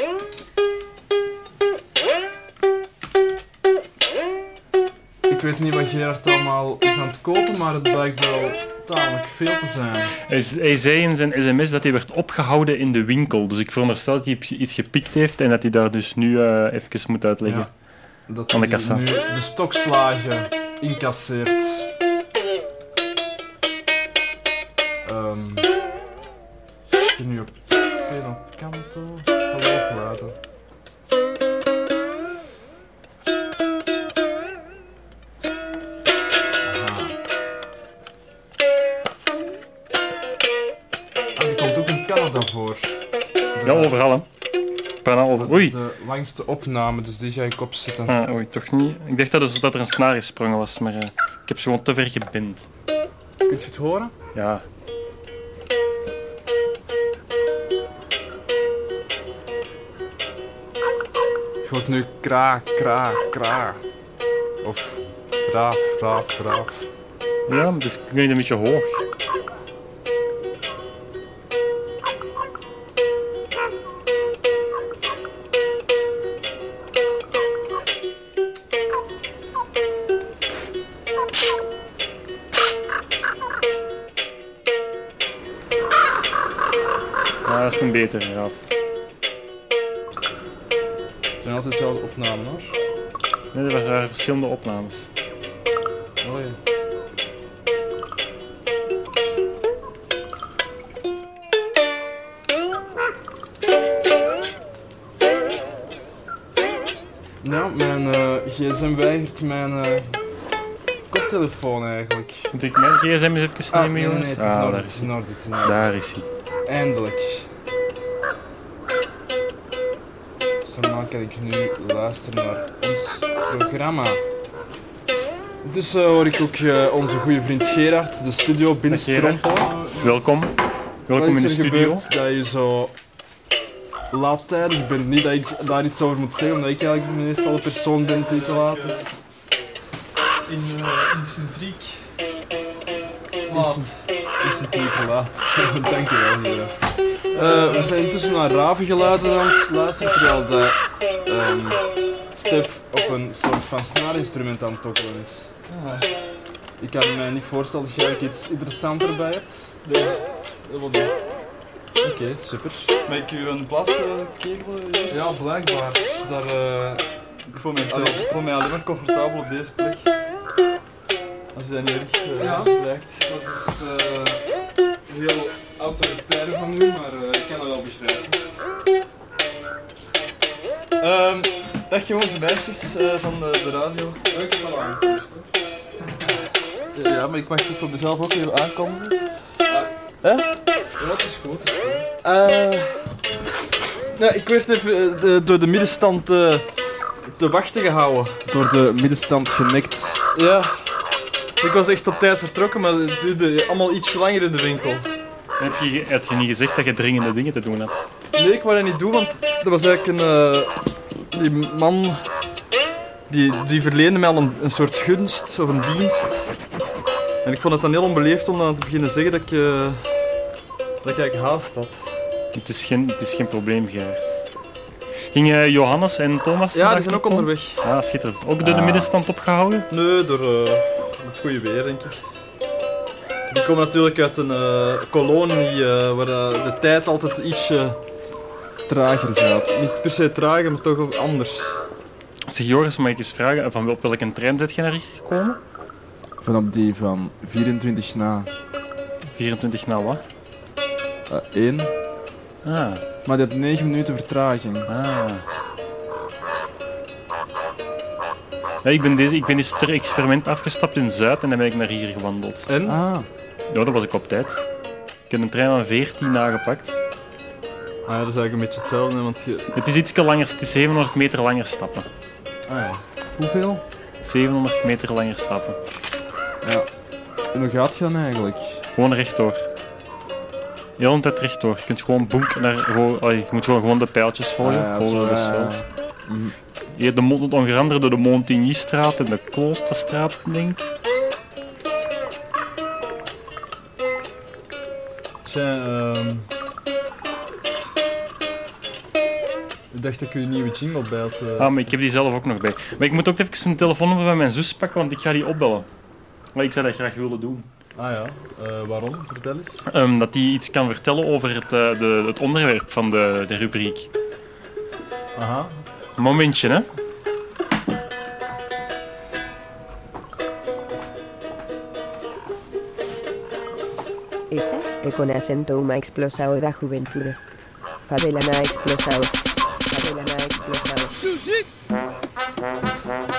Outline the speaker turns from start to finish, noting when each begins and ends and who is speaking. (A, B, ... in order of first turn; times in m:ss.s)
0:05.3-0:10.1 A
0:10.3-0:17.7 B
0:18.3-0:21.9 A
0:18.5-0:19.0 B
0:25.0-0:25.7 A
0:27.0-0:30.3 A
0:36.6-0:37.1 A
0:41.4-0:42.9 A
0:43.5-0:44.0 A
0:43.6-0:44.2 B
0:45.0-0:45.8 B
0:45.4-0:48.1 A
0:48.1-0:52.7 B
0:53.4-0:54.1 A
0:54.3-0:54.6 B
1:01.6-1:03.8 A
1:04.6-1:06.8 A
1:07.5-1:09.0 B
1:27.4-1:28.5 B
1:31.4-1:32.8 A
1:33.5-1:35.1 B
1:36.2-1:36.6 A
1:47.4-1:50.2 A
1:51.1-1:52.5 A
1:52.5-1:55.1 B
1:53.7-1:55.9 A
1:55.6-1:56.2 B
1:56.7-1:57.5 A
2:00.6-2:04.2 A
2:05.6-2:09.8 A
2:08.9-2:10.5 B
2:09.7-2:10.1 C
2:11.1-2:12.0 B
2:11.1-2:12.9 A
2:14.1-2:19.0 A
2:18.1-2:19.1 C
2:20.5-2:22.0 C
2:23.5-2:24.0 C
2:23.5-2:26.7 A
2:27.3-2:27.9 C
2:27.3-2:31.8 A
2:32.3-2:35.5 A
2:35.7-2:36.0 C
2:36.8-2:39.8 A
2:39.8-2:41.1 C
2:42.0-2:42.9 A
2:43.0-2:45.3 C
2:45.1-2:48.2 A
2:47.5-2:50.1 C
2:51.5-2:53.2 C
2:52.4-2:54.4 A
2:55.1-2:58.3 A
3:01.0-3:04.2 C
3:04.3-3:05.5 A
3:06.9-3:09.2 C
3:11.0-3:12.1 A
3:12.2-3:13.1 C
3:14.1-3:16.6 C
3:17.3-3:18.4 C
3:18.5-3:20.2 A
3:20.3-3:20.7 C
3:21.6-3:25.0 C
3:25.6-3:28.0 B
3:28.4-3:30.7 C
3:31.3-3:32.2 C
3:33.3-3:36.5 C
3:37.4-3:40.0 C
3:41.0-3:42.0 C
3:42.5-3:44.2 B
3:45.3-3:49.9 B
3:46.7-3:47.8 C
3:48.6-3:49.1 C
3:49.9-3:52.2 C
3:53.5-3:58.0 C
3:58.9-3:59.8 A
3:59.7-4:01.8 C
4:02.5-4:05.6 B
4:06.4-4:08.5 A
4:09.3-4:10.2 B
4:11.3-4:11.9 A
4:12.6-4:13.0 B
4:13.2-4:14.9 A
4:14.9-4:15.4 B
4:18.8-4:22.7 B
4:22.7-4:23.0 C
4:22.8-4:23.3 A
4:23.7-4:24.6 B
4:25.3-4:27.0 B
4:28.0-4:29.7 C
4:29.7-4:32.1 B
4:32.7-4:33.0 C
4:33.4-4:33.8 A
4:34.2-4:35.8 B
4:36.6-4:36.9 A
4:37.5-4:38.8 A
4:39.0-4:39.6 B
4:41.0-4:45.8 B
4:44.6-4:46.5 A
4:46.9-4:50.8 B
4:55.4-4:56.4 C
4:59.9-5:01.9 C
5:01.6-5:05.9 B
5:06.5-5:07.6 B
5:08.0-5:09.8 C
5:09.9-5:14.1 B
5:15.4-5:15.7 C
5:16.2-5:16.8 B
5:24.5-5:27.4 D
5:28.1-5:29.4 D
5:29.9-5:31.1 D